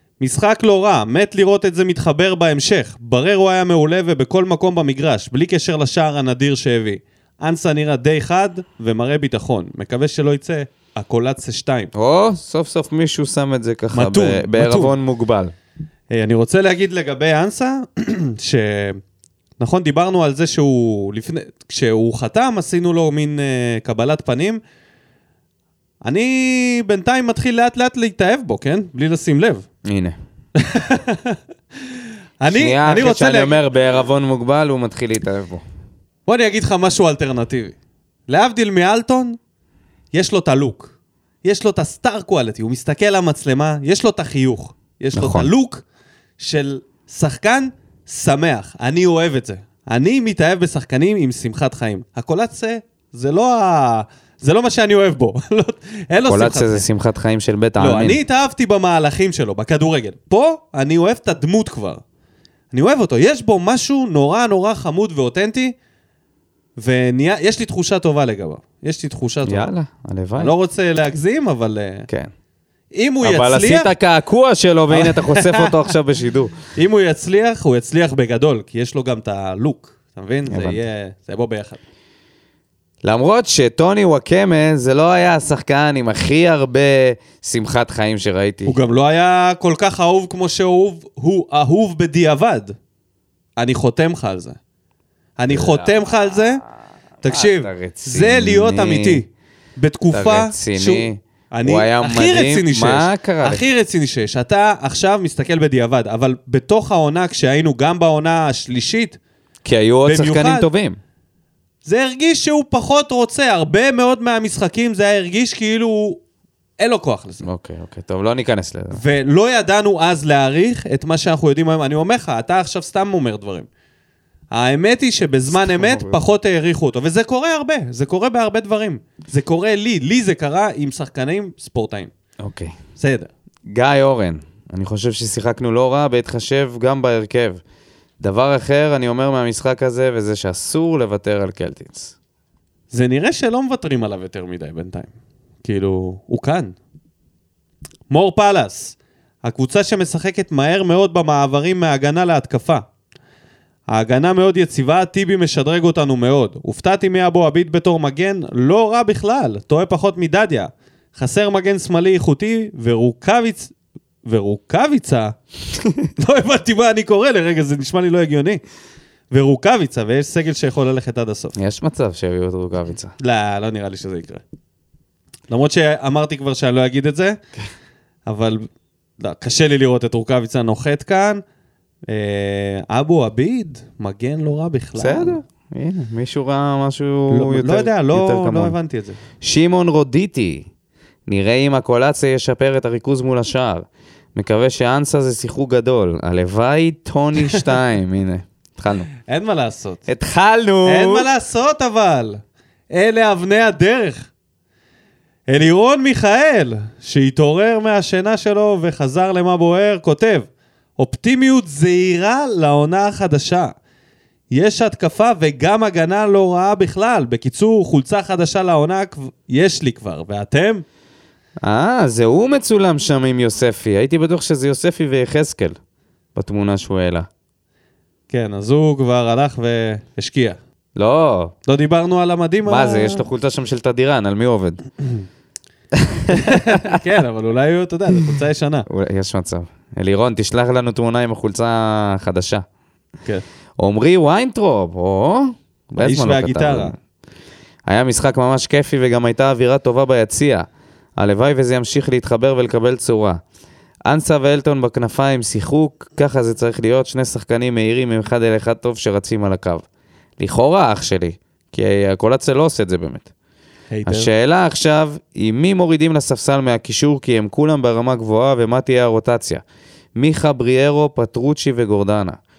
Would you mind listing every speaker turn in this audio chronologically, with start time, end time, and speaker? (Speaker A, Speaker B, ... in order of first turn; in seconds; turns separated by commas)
Speaker A: 0.2-11.9, Speaker B: 11.9-15.5, Speaker A: 13.9-15.0, Speaker A: 16.1-19.0, Speaker A: 19.6-24.6, Speaker A: 26.0-29.7, Speaker B: 29.9-30.2, Speaker A: 30.6-31.4, Speaker A: 31.9-33.6, Speaker B: 32.5-35.6, Speaker A: 36.3-37.8, Speaker A: 38.3-39.4, Speaker A: 40.1-40.9, Speaker A: 41.5-45.8, Speaker B: 45.1-45.5, Speaker A: 46.4-56.9, Speaker B: 56.3-58.2, Speaker A: 57.8-62.0, Speaker A: 62.7-65.8, Speaker A: 66.8-69.7, Speaker B: 69.5-70.5, Speaker A: 70.4-72.1, Speaker A: 72.9-73.9, Speaker B: 73.2-76.7, Speaker A: 74.9-75.9, Speaker A: 76.7-81.8, Speaker B: 80.5-80.8, Speaker B: 83.0-88.8, Speaker A: 88.7-92.8, Speaker A: 93.6-94.6, Speaker A: 95.4-96.6, Speaker B: 95.5-96.7, Speaker A: 97.2-109.2, Speaker B: 97.2-99.2, Speaker B: 100.1-103.7, Speaker B: 109.6-111.0, Speaker A: 110.0-110.7, Speaker A: 111.8-116.2, Speaker A: 116.8-117.5, Speaker B: 117.4-119.0, Speaker A: 118.9-123.7, Speaker A: 124.5-132.1, Speaker B: 125.5-126.2, Speaker B: 132.4-132.7, Speaker A: 133.0-133.3, Speaker B: 133.7-137.6, Speaker B: 138.2-142.1, Speaker A: 142.9-145.1, Speaker A: 145.6-146.8, Speaker A: 148.1-152.8, Speaker A: 153.9-163.7, Speaker A: 164.2-165.4, Speaker A: 166.2-168.6, Speaker A: 169.3-171.6, Speaker B: 171.6-173.1, Speaker A: 173.2-174.4, Speaker A: 175.5-177.4, Speaker A: 178.3-178.7, Speaker A: 179.2-181.4, Speaker A: 182.1-185.4, Speaker B: 185.0-188.8, Speaker A: 187.3-189.2, Speaker B: 189.4-190.7, Speaker B: 191.3-199.1, Speaker A: 199.3-200.1, Speaker B: 200.1-201.3, Speaker A: 200.8-202.4, Speaker A: 202.9-204.3, Speaker A: 205.5-210.5, Speaker A: 211.0-213.7, Speaker A: 214.5-220.8, Speaker B: 221.6-225.8, Speaker B: 226.3-227.3, Speaker A: 228.3-230.6, Speaker B: 231.0-231.6, Speaker A: 231.7-233.2, Speaker B: 232.7-234.8, Speaker B: 235.9-237.0, Speaker A: 236.3-238.9, Speaker B: 238.9-242.7, Speaker B: 243.8-247.0, Speaker A: 246.0-246.9, Speaker B: 247.9-253.4, Speaker B: 254.1-259.9, Speaker B: 260.4-263.3, Speaker A: 263.9-264.3, Speaker B: 264.1-269.6, Speaker B: 270.2-272.4